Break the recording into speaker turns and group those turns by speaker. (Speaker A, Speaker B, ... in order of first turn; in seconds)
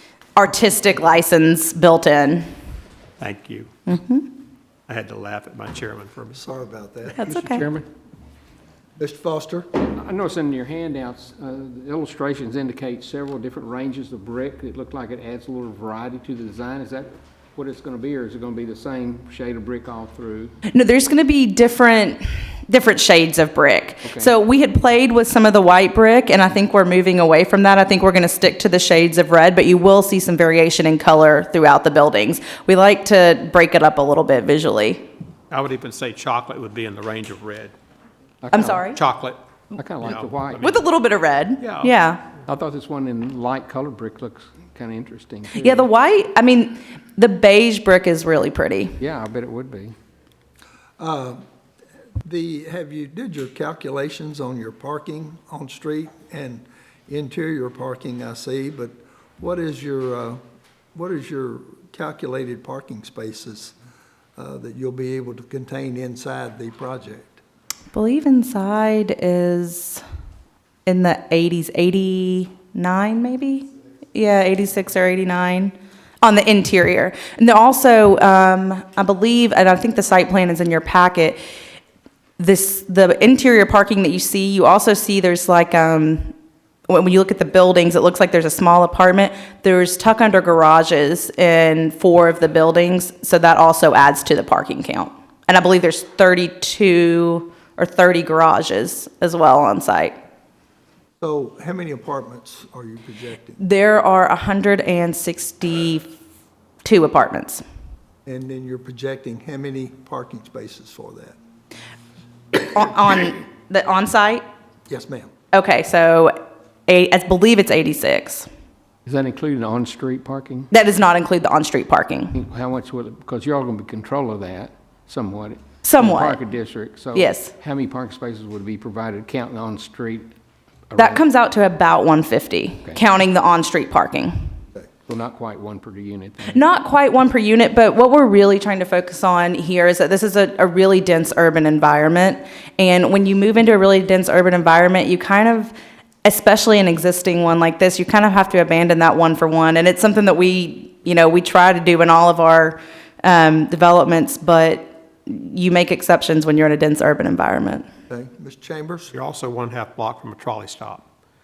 Speaker A: 0.3-2.4, 3.9-4.2, 7.2-7.6, 20.7-35.0, 38.5-39.0, 40.6-42.2, 45.5-48.9, 67.9-70.0, 70.8-81.4, 82.4-86.3, 86.9-100.1, 103.6-106.1, 106.8-107.6, 112.5-114.4, 115.5-118.5, 120.7-122.3, 125.8-126.4, 127.1-127.5, 131.0-134.4, 136.5-145.7, 146.2-157.8
Speaker B: 3.2-3.7, 4.9-6.4, 35.5-37.7, 38.8-39.4, 40.0-40.8, 41.6-41.9, 159.1-161.0
Speaker C: 6.4-7.4, 9.0-9.7, 51.0-51.4, 52.2-60.4, 60.9-63.7, 64.3-67.4, 101.2-103.6, 108.2-111.4, 114.9-115.3, 158.1-159.1
Speaker D: 9.9-20.5, 39.8-40.5, 42.5-45.6, 49.0-49.9, 119.1-120.7, 122.5-130.2, 135.1-136.4